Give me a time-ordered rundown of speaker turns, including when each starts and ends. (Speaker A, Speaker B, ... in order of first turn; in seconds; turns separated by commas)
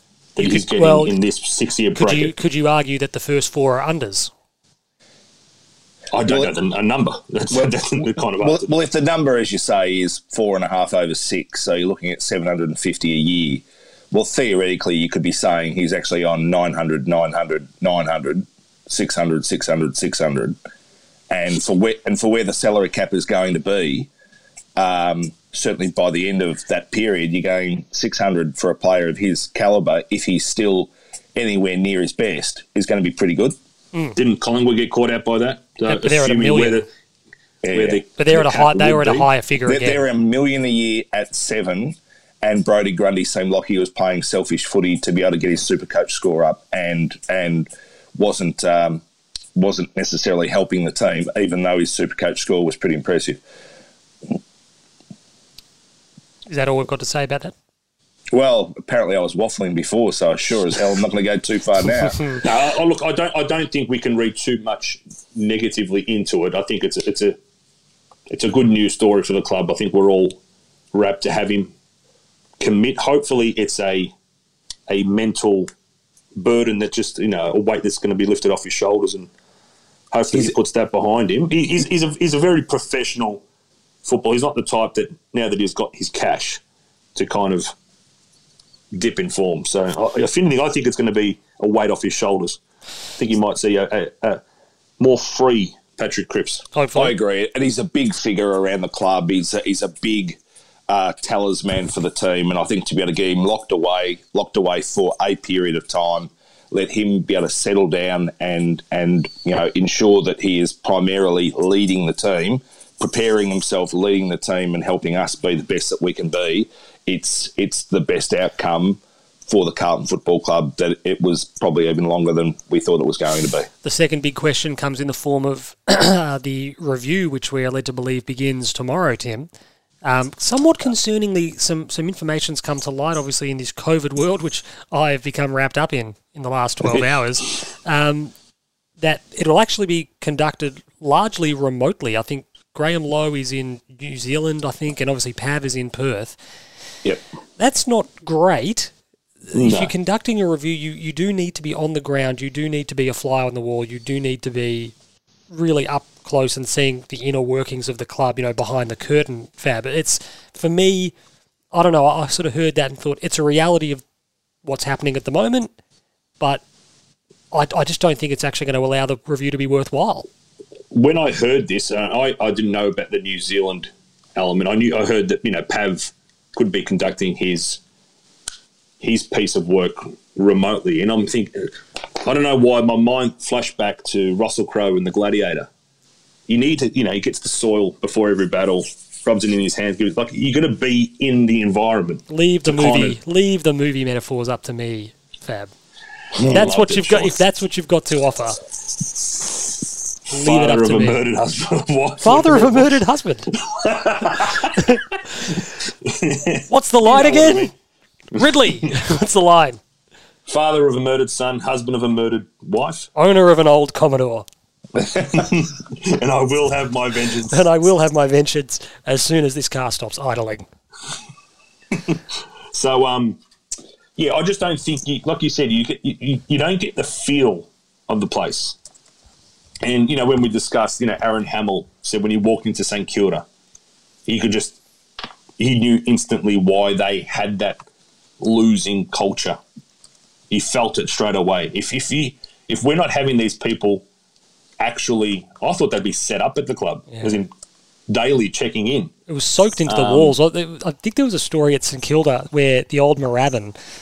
Speaker A: 0.3-2.3, Speaker B: 0.4-1.1, Speaker B: 1.9-4.3, Speaker A: 6.1-8.7, Speaker C: 6.2-6.5, Speaker C: 7.5-20.6, Speaker C: 21.3-24.1, Speaker C: 24.8-33.5, Speaker A: 34.1-36.9, Speaker B: 35.9-36.8, Speaker C: 37.6-38.0, Speaker A: 37.7-39.3, Speaker B: 38.2-40.0, Speaker C: 39.6-49.0, Speaker C: 49.5-53.4, Speaker B: 56.5-57.5, Speaker C: 58.3-62.4, Speaker A: 62.4-67.3, Speaker A: 68.3-70.4, Speaker A: 70.9-71.7, Speaker A: 72.6-74.1, Speaker A: 74.9-75.7, Speaker A: 76.3-79.3, Speaker A: 80.1-83.4, Speaker A: 84.0-86.6, Speaker A: 87.1-87.7, Speaker A: 88.9-92.6, Speaker A: 93.2-94.4, Speaker A: 95.0-96.6, Speaker B: 96.7-97.1, Speaker C: 96.9-123.7, Speaker B: 123.8-129.5, Speaker B: 130.0-138.3, Speaker B: 139.0-146.4, Speaker B: 147.6-148.9, Speaker B: 149.5-154.9, Speaker A: 149.5-149.9, Speaker B: 155.5-161.1, Speaker B: 161.7-164.0, Speaker B: 164.6-165.7, Speaker B: 167.5-170.3, Speaker A: 170.9-177.8, Speaker A: 179.0-185.7, Speaker A: 186.5-193.2, Speaker B: 192.3-195.7, Speaker A: 196.3-197.3, Speaker B: 196.5-198.6, Speaker A: 200.3-203.0, Speaker B: 200.3-201.2, Speaker B: 202.2-203.5, Speaker A: 203.6-207.7, Speaker B: 206.7-207.7, Speaker B: 208.3-209.8, Speaker A: 210.4-213.1, Speaker B: 213.1-214.4, Speaker A: 215.0-217.6, Speaker B: 217.5-220.7, Speaker A: 222.7-223.4, Speaker A: 224.2-228.8, Speaker A: 229.8-233.4, Speaker A: 234.2-234.8, Speaker A: 235.6-237.8, Speaker A: 238.4-239.6, Speaker A: 240.5-244.0, Speaker A: 244.8-247.5, Speaker A: 248.1-249.1, Speaker B: 249.3-253.8, Speaker A: 249.9-250.3